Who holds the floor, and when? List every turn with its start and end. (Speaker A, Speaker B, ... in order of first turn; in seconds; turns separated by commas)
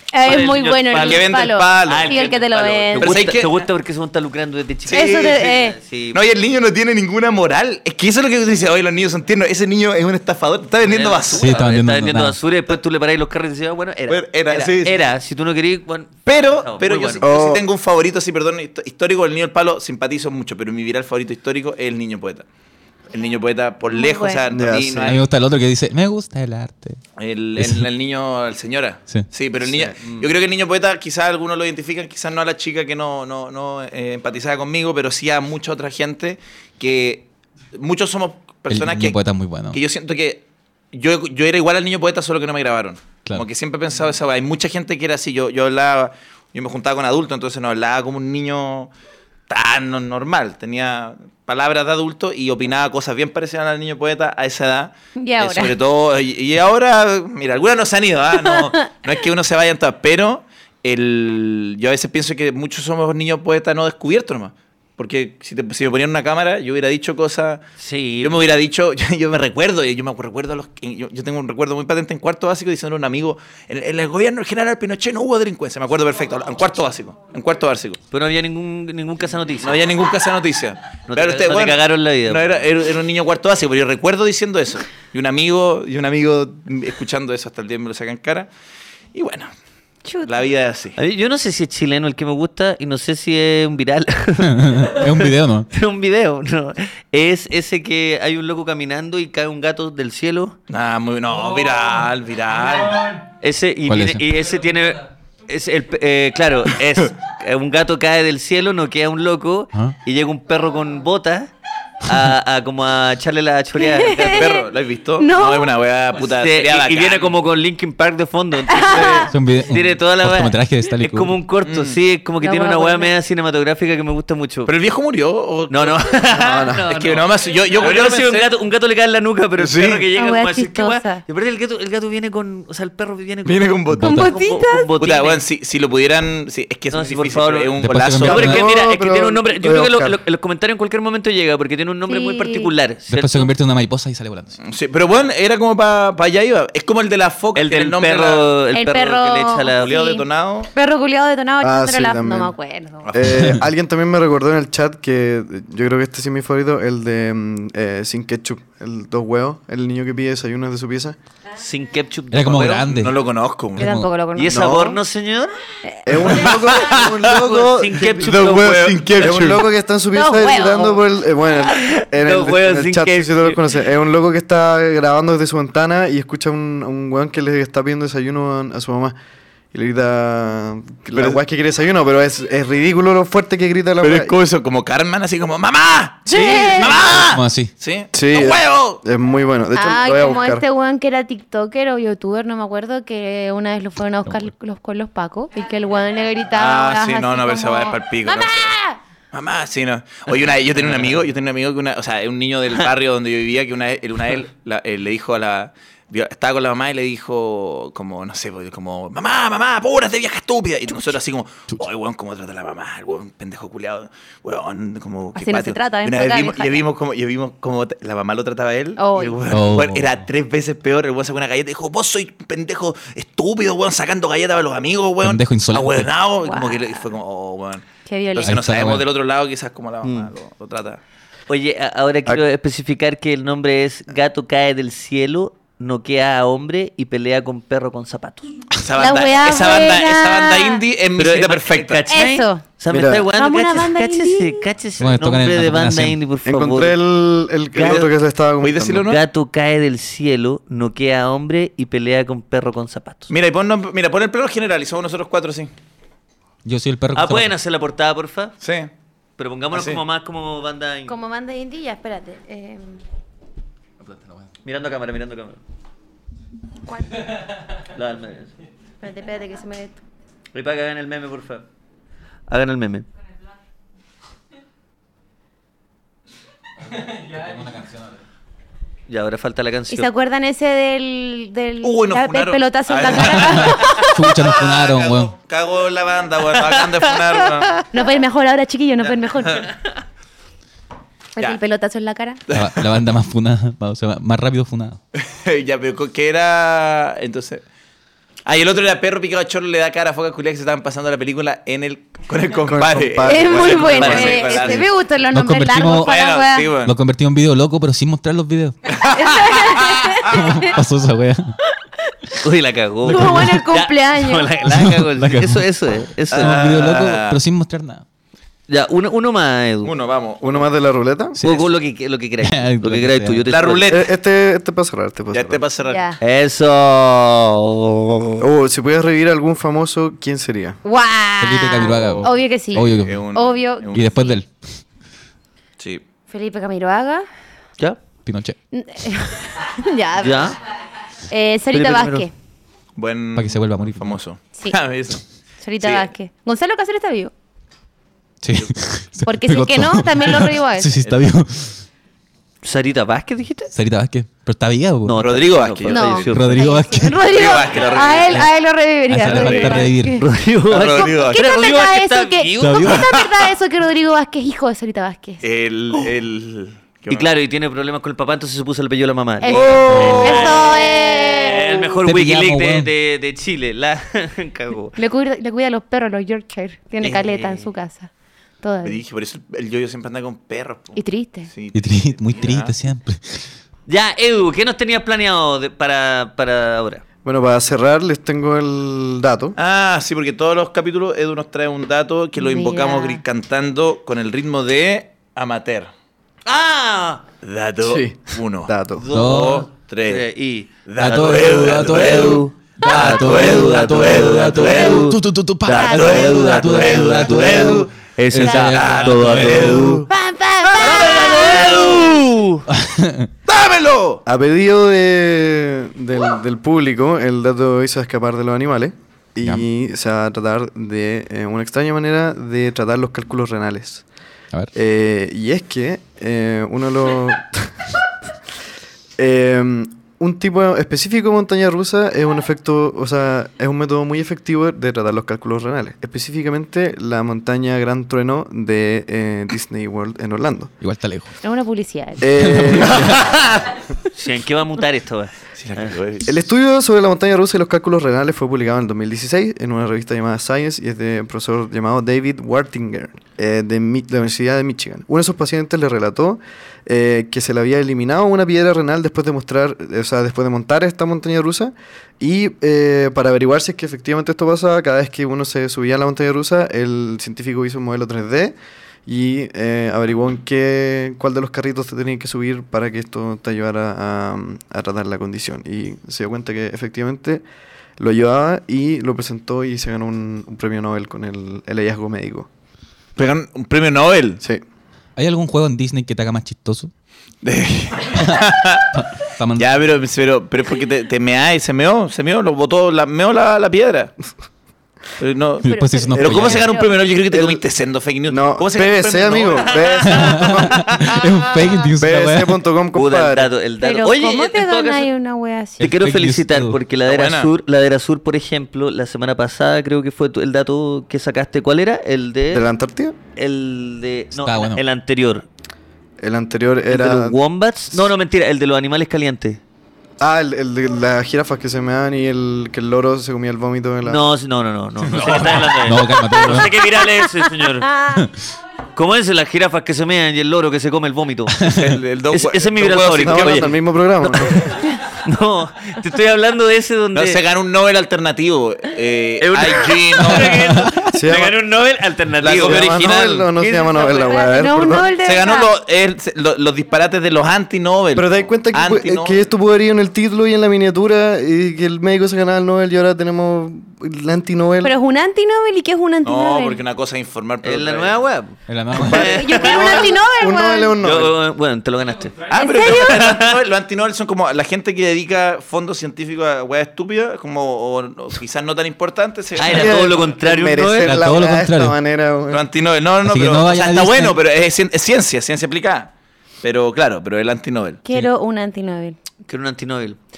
Speaker A: 0.1-3.3, Speaker B: 0.2-1.3, Speaker C: 1.0-2.1, Speaker B: 1.9-6.2, Speaker C: 3.0-3.6, Speaker C: 4.9-5.4, Speaker A: 4.9-5.8, Speaker C: 6.1-11.6, Speaker B: 10.8-17.3, Speaker D: 11.4-12.4, Speaker C: 14.1-15.0, Speaker C: 16.3-22.5, Speaker E: 17.2-17.6, Speaker C: 23.1-25.2, Speaker A: 23.9-24.4, Speaker E: 24.5-25.2, Speaker D: 25.0-27.0, Speaker C: 27.2-39.2, Speaker D: 27.6-27.9, Speaker E: 29.7-30.0, Speaker D: 38.7-39.8, Speaker C: 39.7-48.9, Speaker C: 49.5-67.7, Speaker A: 55.2-55.8, Speaker A: 58.5-58.7, Speaker B: 67.8-68.5, Speaker C: 68.2-78.0, Speaker B: 78.1-79.8, Speaker C: 79.6-88.5, Speaker B: 81.1-82.6, Speaker C: 89.1-89.5, Speaker A: 90.0-90.3, Speaker C: 90.2-91.0, Speaker B: 91.0-100.6, Speaker D: 94.4-95.7, Speaker C: 100.7-103.0, Speaker B: 103.4-111.5, Speaker D: 103.9-104.2, Speaker B: 112.0-114.5, Speaker A: 113.8-115.8, Speaker C: 114.2-117.4, Speaker B: 116.2-124.7, Speaker A: 118.7-119.3, Speaker D: 119.3-121.4, Speaker C: 121.6-122.0, Speaker A: 122.4-123.1, Speaker C: 124.7-126.0, Speaker B: 125.7-135.4, Speaker E: 126.3-126.9, Speaker C: 126.9-128.5, Speaker C: 129.6-130.1, Speaker A: 130.2-131.2, Speaker C: 133.4-134.2, Speaker D: 133.9-134.4, Speaker A: 133.9-134.9, Speaker C: 135.0-138.6, Speaker B: 136.9-143.5, Speaker D: 137.8-138.6, Speaker E: 138.3-140.2, Speaker A: 142.1-142.7, Speaker D: 143.1-144.6, Speaker C: 144.6-148.6, Speaker B: 147.6-149.9, Speaker A: 148.7-153.0, Speaker C: 149.8-150.7, Speaker E: 151.6-152.5, Speaker C: 153.0-153.4, Speaker E: 153.1-161.2, Speaker D: 153.3-153.6, Speaker B: 161.6-162.9, Speaker D: 162.3-163.2, Speaker C: 162.7-163.9, Speaker A: 163.8-164.7, Speaker D: 163.8-164.1, Speaker B: 164.3-165.5, Speaker E: 164.5-165.0, Speaker A: 165.8-166.8, Speaker E: 166.1-179.2, Speaker C: 166.3-167.2, Speaker B: 167.1-169.3, Speaker C: 168.2-169.6, Speaker A: 170.1-171.0, Speaker B: 171.7-173.6, Speaker E: 179.7-184.3, Speaker C: 181.1-181.4, Speaker C: 184.0-189.0, Speaker E: 186.3-186.9, Speaker A: 186.3-187.1, Speaker D: 187.1-187.7, Speaker E: 188.1-190.6, Speaker A: 189.8-199.0, Speaker C: 196.5-198.7, Speaker C: 199.3-227.9, Speaker A: 215.4-216.9, Speaker A: 219.0-219.4, Speaker D: 219.5-220.1, Speaker D: 225.2-226.1, Speaker A: 226.4-227.0, Speaker A: 228.1-228.6, Speaker D: 228.4-229.1, Speaker C: 228.4-231.0, Speaker B: 230.0-230.3, Speaker B: 231.5-238.6, Speaker C: 238.8-242.0, Speaker A: 239.0-240.8, Speaker B: 241.2-247.0, Speaker A: 242.1-242.6, Speaker E: 242.9-243.3, Speaker A: 243.3-244.7, Speaker D: 245.0-246.2, Speaker E: 246.4-249.1, Speaker B: 247.7-248.1, Speaker C: 247.8-249.2, Speaker B: 249.0-253.3, Speaker C: 253.3-255.7, Speaker D: 256.6-257.5, Speaker B: 257.1-258.6, Speaker C: 258.6-258.9, Speaker B: 259.4-261.2, Speaker C: 259.7-260.0, Speaker A: 261.1-263.0, Speaker B: 264.6-265.6, Speaker B: 267.9-268.5, Speaker A: 269.0-270.0, Speaker B: 270.5-271.6, Speaker B: 272.5-273.1, Speaker D: 277.1-278.1, Speaker B: 279.1-280.1, Speaker A: 279.9-284.2, Speaker C: 281.8-287.8, Speaker D: 283.3-285.4, Speaker B: 286.6-287.8, Speaker A: 287.9-289.7, Speaker A: 291.4-292.4, Speaker C: 292.5-292.9, Speaker D: 292.5-295.0, Speaker C: 295.1-297.6, Speaker C: 298.5-304.9, Speaker E: 302.6-304.3, Speaker A: 303.2-306.7, Speaker B: 303.9-304.9, Speaker D: 305.3-306.2, Speaker C: 306.0-306.9, Speaker D: 306.8-308.8, Speaker C: 308.9-310.5, Speaker A: 309.1-310.8, Speaker D: 310.2-311.6, Speaker A: 311.7-312.4, Speaker B: 312.4-316.8, Speaker D: 313.1-313.6, Speaker A: 313.1-314.5, Speaker D: 314.7-315.7, Speaker C: 316.3-317.4, Speaker D: 316.4-318.1, Speaker B: 318.7-319.9, Speaker C: 319.8-320.7, Speaker E: 320.4-321.4, Speaker D: 321.4-321.7, Speaker B: 321.4-323.9, Speaker D: 322.4-323.5, Speaker C: 323.5-324.1, Speaker E: 323.9-325.6, Speaker C: 325.3-326.0, Speaker A: 325.9-326.2, Speaker B: 326.2-328.5, Speaker E: 328.4-330.8, Speaker A: 330.8-334.3, Speaker D: 331.4-333.2, Speaker C: 333.0-334.2, Speaker D: 333.9-334.5, Speaker A: 336.3-337.3, Speaker D: 338.2-338.6, Speaker A: 338.7-340.6, Speaker B: 340.2-340.6, Speaker A: 341.3-342.3, Speaker B: 341.7-342.3, Speaker C: 343.0-345.2, Speaker D: 343.4-344.2, Speaker A: 345.6-347.3, Speaker C: 345.8-346.1, Speaker D: 348.4-351.9, Speaker A: 349.2-350.9, Speaker C: 351.0-351.3, Speaker B: 352.6-353.7, Speaker D: 353.7-355.2, Speaker B: 355.1-356.7, Speaker C: 355.2-356.6, Speaker A: 355.9-360.2, Speaker D: 356.3-357.3, Speaker C: 357.1-358.5, Speaker D: 359.1-360.2, Speaker C: 359.3-359.9, Speaker B: 360.2-363.0, Speaker C: 360.7-361.4, Speaker A: 360.9-365.4, Speaker D: 362.6-363.1, Speaker C: 362.9-363.3, Speaker C: 365.4-367.3, Speaker B: 367.1-375.0, Speaker A: 369.4-371.9, Speaker C: 369.5-370.9, Speaker D: 369.9-370.4, Speaker D: 372.0-372.9, Speaker A: 375.0-378.1, Speaker B: 377.0-377.7, Speaker A: 378.6-379.0, Speaker C: 378.8-382.7, Speaker A: 380.9-381.5, Speaker D: 381.7-383.5, Speaker B: 383.9-387.0, Speaker E: 387.2-389.6, Speaker C: 389.6-395.9, Speaker A: 392.4-393.2, Speaker B: 396.5-397.2, Speaker C: 397.4-400.3, Speaker E: 397.8-399.1, Speaker B: 399.0-412.6, Speaker D: 399.1-399.6, Speaker C: 400.9-405.1, Speaker D: 401.0-410.0, Speaker C: 405.8-410.1, Speaker A: 410.1-412.2, Speaker C: 410.7-412.3, Speaker D: 412.7-413.3, Speaker C: 413.5-414.2, Speaker E: 414.3-424.0, Speaker E: 424.7-427.8, Speaker E: 429.2-440.7, Speaker D: 440.8-441.3, Speaker A: 441.4-442.3, Speaker E: 442.2-443.2, Speaker D: 442.4-443.2, Speaker C: 442.8-443.8, Speaker B: 444.1-446.0, Speaker C: 445.6-446.3, Speaker E: 446.2-477.4, Speaker E: 478.0-482.5, Speaker C: 483.2-484.4, Speaker D: 485.2-486.9, Speaker C: 487.4-489.0, Speaker D: 488.2-488.4, Speaker D: 489.2-489.7, Speaker C: 489.6-494.1, Speaker C: 495.2-500.9, Speaker D: 495.6-496.7, Speaker A: 495.7-497.0, Speaker E: 497.3-497.6, Speaker E: 498.3-500.9, Speaker D: 500.1-502.5, Speaker E: 502.0-503.5, Speaker B: 502.9-505.1, Speaker A: 503.8-505.9, Speaker D: 505.8-506.8, Speaker B: 505.8-512.7, Speaker C: 507.1-507.5, Speaker E: 512.5-513.2, Speaker B: 513.4-515.5, Speaker D: 514.4-514.8, Speaker E: 516.2-517.4, Speaker B: 516.9-519.6, Speaker E: 520.2-524.2, Speaker B: 524.0-528.0, Speaker D: 525.0-526.8, Speaker A: 527.2-528.2, Speaker D: 528.1-528.4, Speaker B: 529.0-531.7, Speaker D: 531.6-531.8, Speaker C: 531.6-533.7, Speaker B: 532.3-537.4, Speaker E: 533.2-534.6, Speaker C: 537.1-540.8, Speaker B: 539.4-544.2, Speaker E: 541.1-541.6, Speaker C: 542.4-543.4, Speaker E: 542.6-545.1, Speaker A: 544.0-545.7, Speaker C: 545.2-549.5, Speaker E: 548.1-554.9, Speaker A: 554.8-556.8, Speaker C: 556.2-558.2, Speaker B: 557.6-560.0, Speaker D: 558.7-559.2, Speaker E: 559.0-561.4, Speaker A: 559.0-561.0, Speaker B: 561.0-563.6, Speaker C: 562.5-570.1, Speaker A: 562.5-563.2, Speaker B: 569.6-571.2, Speaker E: 569.7-572.7, Speaker D: 571.0-572.0, Speaker C: 572.5-576.1, Speaker D: 573.2-574.4, Speaker C: 576.6-578.0, Speaker A: 578.0-579.2, Speaker B: 579.5-580.2